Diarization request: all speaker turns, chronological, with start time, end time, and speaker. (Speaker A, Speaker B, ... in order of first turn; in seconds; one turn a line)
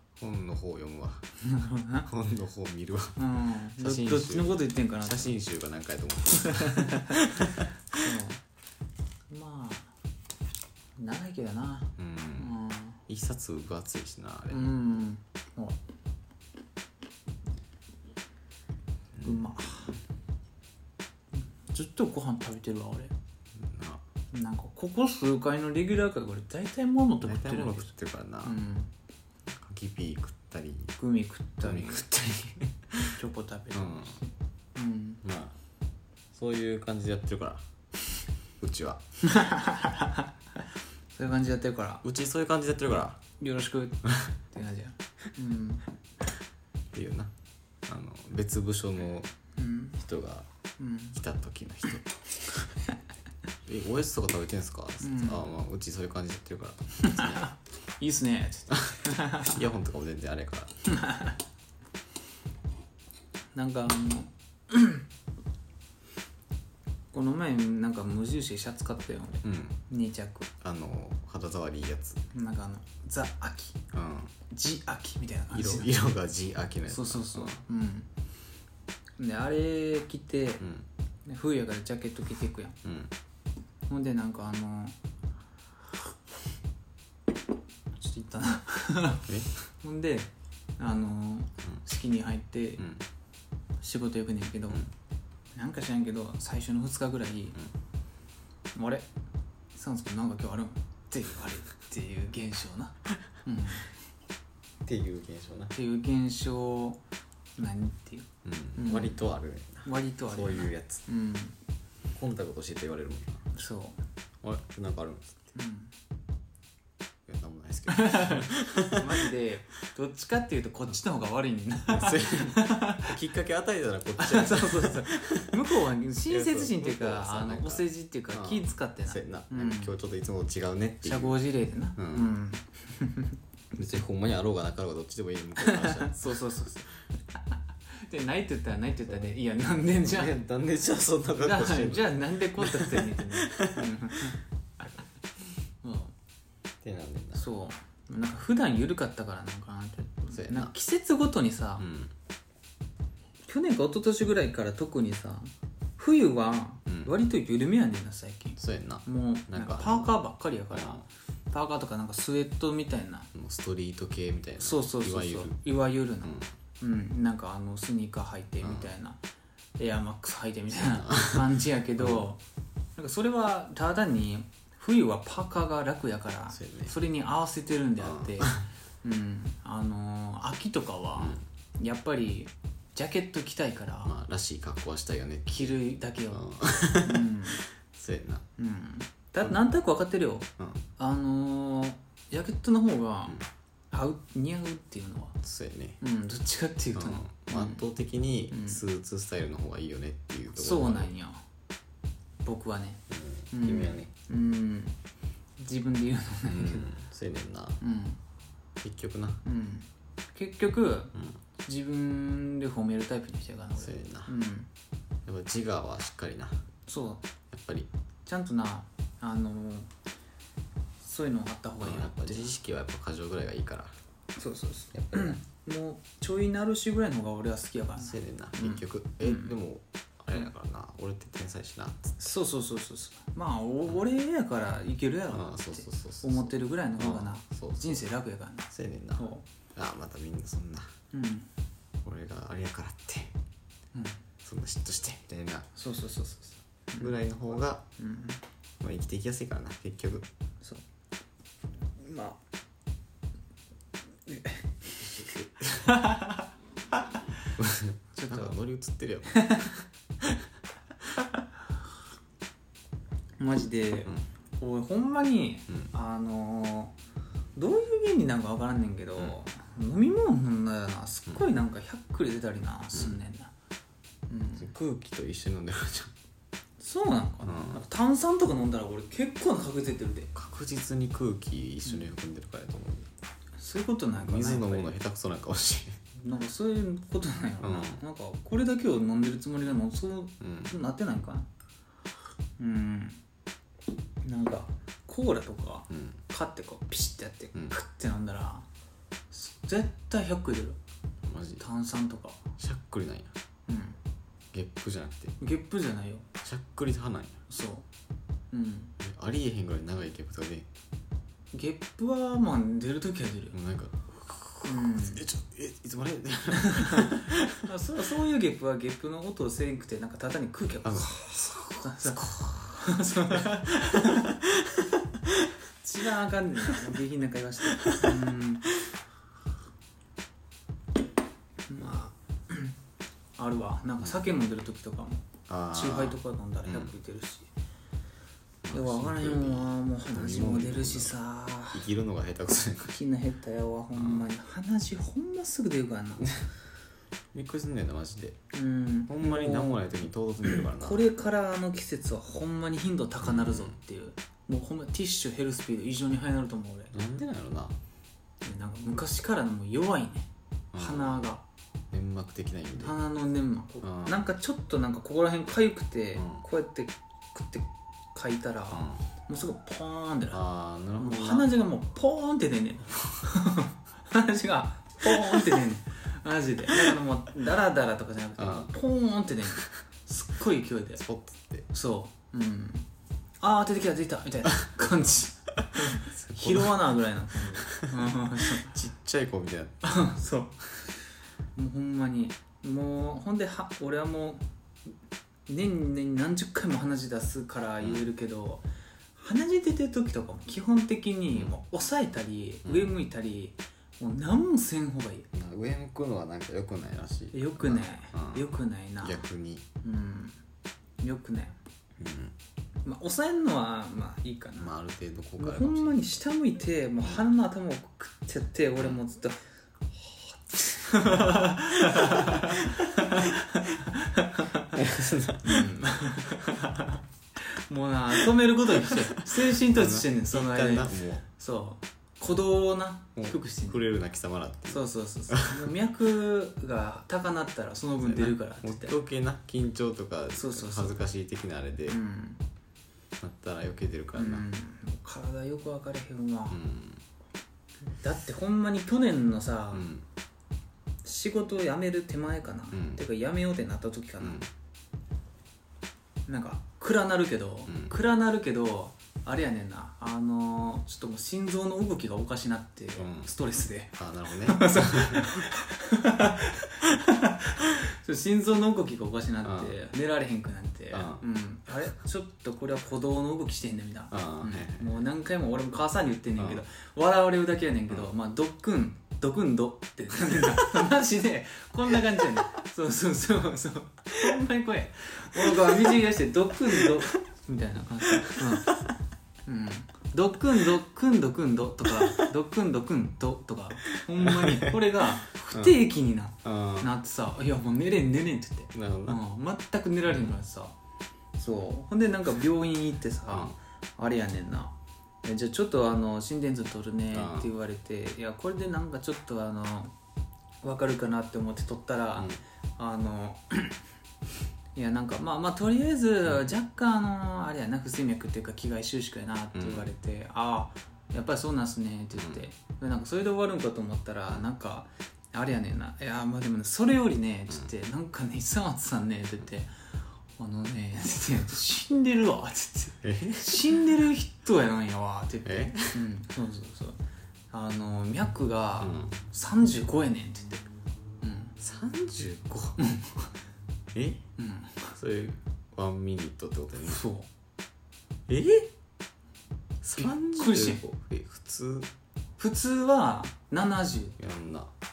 Speaker A: 0.2-1.3
Speaker B: 1.4-2.1
Speaker A: 2.0-3.2
Speaker B: 3.2-5.3
Speaker A: 3.8-7.7
Speaker B: 6.4-8.4
Speaker B: 9.3-9.9
Speaker B: 11.0-13.0
Speaker A: 12.0-14.7
Speaker B: 14.5-15.8
Speaker A: 19.2-19.6
Speaker B: 19.2-20.0
Speaker B: 21.4-23.1
Speaker A: 23.6-24.0
Speaker B: 24.3-27.9
Speaker A: 27.2-28.6
Speaker B: 28.4-28.9
Speaker A: 29.5-31.0
Speaker B: 31.0-32.0
Speaker A: 31.6-33.2
Speaker B: 33.1-35.2
Speaker A: 33.7-34.2
Speaker A: 35.2-35.6
Speaker A: 36.3-37.6
Speaker A: 38.6-39.0
Speaker B: 39.2-40.3
Speaker B: 41.1-42.0
Speaker A: 42.0-43.2
Speaker B: 43.4-45.8
Speaker A: 44.1-44.4
Speaker A: 46.9-47.3
Speaker A: 47.9-49.3
Speaker B: 49.6-50.0
Speaker A: 50.0-50.5
Speaker B: 50.8-51.2
Speaker A: 51.1-52.1
Speaker A: 53.7-57.5
Speaker B: 55.0-55.5
Speaker B: 57.0-59.6
Speaker A: 58.7-60.7
Speaker B: 60.9-61.4
Speaker B: 63.5-65.0
Speaker B: 67.1-70.5
Speaker A: 69.4-69.8
Speaker A: 70.6-72.2
Speaker B: 72.3-73.8
Speaker A: 73.9-74.3
Speaker B: 74.5-75.9
Speaker A: 75.5-77.6
Speaker B: 76.9-78.1
Speaker B: 79.2-80.7
Speaker A: 80.6-80.9
Speaker B: 81.3-82.8
Speaker A: 82.8-83.1
Speaker B: 83.9-85.0
Speaker B: 88.0-89.3
Speaker A: 89.3-89.5
Speaker B: 89.8-92.9
Speaker A: 92.8-93.0
Speaker B: 93.8-94.9
Speaker B: 95.5-97.6
Speaker B: 98.8-99.1
Speaker B: 99.7-103.9
Speaker A: 104.8-105.7
Speaker B: 105.7-107.0
Speaker B: 107.6-109.2
Speaker A: 108.5-111.0
Speaker B: 109.8-111.5
Speaker A: 112.1-113.5
Speaker B: 113.5-114.0
Speaker A: 114.4-115.4
Speaker B: 115.5-115.9
Speaker A: 117.3-119.1
Speaker B: 117.9-123.1
Speaker A: 121.9-125.6
Speaker B: 124.2-129.9
Speaker A: 126.3-131.4
Speaker B: 131.0-133.3
Speaker A: 132.0-132.3
Speaker A: 133.7-136.3
Speaker B: 135.6-136.9
Speaker B: 138.1-140.4
Speaker A: 139.1-139.4
Speaker A: 139.9-143.9
Speaker B: 141.4-145.1
Speaker B: 145.8-146.1
Speaker A: 146.8-147.5
Speaker B: 147.3-151.9
Speaker A: 150.3-150.7
Speaker A: 151.8-152.1
Speaker B: 153.5-163.3
Speaker A: 158.6-160.2
Speaker A: 160.7-161.1
Speaker A: 163.3-165.6
Speaker B: 164.6-169.2
Speaker A: 166.2-166.5
Speaker A: 168.6-168.9
Speaker B: 169.8-172.4
Speaker A: 170.7-172.3
Speaker B: 173.0-184.2
Speaker A: 176.5-177.0
Speaker A: 178.0-178.7
Speaker A: 181.2-181.4
Speaker A: 184.1-185.8
Speaker B: 185.5-187.6
Speaker A: 186.3-187.3
Speaker A: 187.9-188.4
Speaker B: 188.6-195.4
Speaker A: 195.4-196.0
Speaker B: 196.0-197.8
Speaker A: 196.9-201.1
Speaker B: 198.5-198.8
Speaker B: 200.5-201.4
Speaker B: 202.4-205.0
Speaker A: 203.1-204.1
Speaker B: 205.6-206.9
Speaker A: 206.5-207.8
Speaker B: 207.8-208.2
Speaker A: 208.8-209.4
Speaker B: 209.4-211.1
Speaker A: 211.1-211.4
Speaker B: 211.7-214.7
Speaker A: 213.8-214.3
Speaker A: 215.2-216.6
Speaker B: 216.9-217.2
Speaker A: 217.5-217.9
Speaker B: 218.3-219.9
Speaker B: 221.0-222.5
Speaker A: 221.8-223.9
Speaker B: 224.4-229.6
Speaker A: 224.9-225.4
Speaker A: 228.0-232.2
Speaker B: 232.2-239.4
Speaker A: 235.3-238.0
Speaker A: 238.7-240.9
Speaker B: 241.1-241.5
Speaker A: 242.0-243.3
Speaker B: 243.9-244.2
Speaker A: 244.4-245.7
Speaker B: 245.8-247.1
Speaker A: 247.0-247.9
Speaker B: 248.0-248.4
Speaker A: 248.8-250.3
Speaker B: 252.0-252.4
Speaker B: 254.3-255.3
Speaker A: 255.0-256.0
Speaker B: 255.8-256.5
Speaker A: 257.6-260.3
Speaker B: 258.2-258.6
Speaker B: 259.3-259.8
Speaker B: 263.4-266.9
Speaker B: 267.6-273.5
Speaker A: 272.9-273.2
Speaker B: 274.3-274.7
Speaker A: 274.6-276.1
Speaker B: 276.8-280.3
Speaker A: 277.4-277.8
Speaker A: 280.4-283.1
Speaker B: 283.6-284.9
Speaker A: 284.2-286.0
Speaker B: 286.2-291.5
Speaker A: 287.6-288.0
Speaker A: 290.4-290.7
Speaker B: 292.6-293.2
Speaker B: 294.2-298.7
Speaker A: 295.9-296.2
Speaker B: 299.3-300.8
Speaker A: 301.2-301.6
Speaker B: 301.6-302.5
Speaker A: 302.6-303.3
Speaker B: 303.7-304.0
Speaker A: 304.5-305.4
Speaker B: 305.4-306.3
Speaker A: 306.4-307.4
Speaker B: 307.5-307.9
Speaker B: 308.5-308.9
Speaker A: 309.0-310.7
Speaker B: 311.5-313.6
Speaker A: 313.5-317.6
Speaker B: 314.6-315.2
Speaker B: 316.6-324.4
Speaker A: 320.8-324.9
Speaker B: 325.8-328.7
Speaker A: 327.8-328.2
Speaker B: 331.7-332.8
Speaker B: 333.4-337.5
Speaker A: 335.5-336.9
Speaker A: 338.6-341.1
Speaker B: 338.7-341.9
Speaker A: 341.7-342.9
Speaker B: 342.9-346.4
Speaker A: 343.9-344.3
Speaker A: 347.3-348.4
Speaker B: 348.5-349.8
Speaker A: 349.1-351.0
Speaker B: 350.5-356.9
Speaker A: 353.2-353.8
Speaker A: 356.9-357.8
Speaker B: 358.4-361.4
Speaker A: 360.7-361.3
Speaker A: 361.9-363.0
Speaker B: 362.8-370.4
Speaker A: 363.8-364.2
Speaker A: 366.1-366.4
Speaker A: 368.7-369.0
Speaker A: 370.3-371.5
Speaker B: 371.0-381.0
Speaker A: 375.1-375.6
Speaker A: 378.4-378.7
Speaker A: 381.0-381.7
Speaker B: 381.7-382.9
Speaker B: 383.4-388.8
Speaker A: 385.9-386.8
Speaker A: 387.7-390.1
Speaker B: 389.8-390.6
Speaker B: 391.6-394.4
Speaker B: 395.5-398.6
Speaker B: 399.2-405.3
Speaker A: 402.6-403.0
Speaker A: 405.3-408.5
Speaker B: 407.3-409.2
Speaker A: 409.0-409.6
Speaker B: 409.8-410.4
Speaker B: 411.0-411.6
Speaker A: 412.0-412.3
Speaker B: 412.9-414.7
Speaker A: 414.6-416.1
Speaker B: 415.4-424.7
Speaker A: 421.9-423.3
Speaker A: 424.7-425.7
Speaker B: 425.4-433.8
Speaker A: 428.9-431.2
Speaker A: 433.2-435.7
Speaker B: 434.7-438.9
Speaker A: 438.1-442.0
Speaker B: 440.4-441.0
Speaker B: 441.9-442.4
Speaker A: 443.2-444.4
Speaker B: 444.1-446.6
Speaker A: 446.5-447.0
Speaker B: 447.9-449.9
Speaker A: 449.7-450.1
Speaker B: 451.0-454.4
Speaker A: 452.7-453.0
Speaker A: 454.2-454.5
Speaker B: 456.3-488.8
Speaker A: 457.7-457.9
Speaker A: 463.0-463.3
Speaker A: 463.9-465.6
Speaker A: 469.4-469.7
Speaker A: 470.9-471.2
Speaker A: 474.1-475.0
Speaker A: 476.4-476.6
Speaker A: 485.4-486.0
Speaker A: 486.7-487.0
Speaker A: 488.2-488.6
Speaker B: 489.5-500.8
Speaker A: 494.1-495.8
Speaker A: 496.4-496.9
Speaker A: 498.7-499.2
Speaker B: 501.4-504.7
Speaker A: 503.3-503.6
Speaker B: 505.2-509.9
Speaker A: 507.1-507.5
Speaker B: 510.6-513.8
Speaker B: 514.8-529.7
Speaker A: 519.5-519.9
Speaker A: 522.2-522.4
Speaker B: 530.4-537.0
Speaker A: 533.0-533.7
Speaker A: 535.5-536.0
Speaker B: 537.5-540.7
Speaker A: 538.8-539.1
Speaker B: 541.2-541.5
Speaker A: 541.6-542.8
Speaker B: 542.8-543.3
Speaker A: 543.9-544.2
Speaker B: 544.4-545.0
Speaker A: 544.9-547.1
Speaker B: 546.8-547.3
Speaker A: 548.3-548.7
Speaker A: 549.8-551.9
Speaker B: 550.0-550.9
Speaker B: 552.4-554.2
Speaker A: 554.2-554.7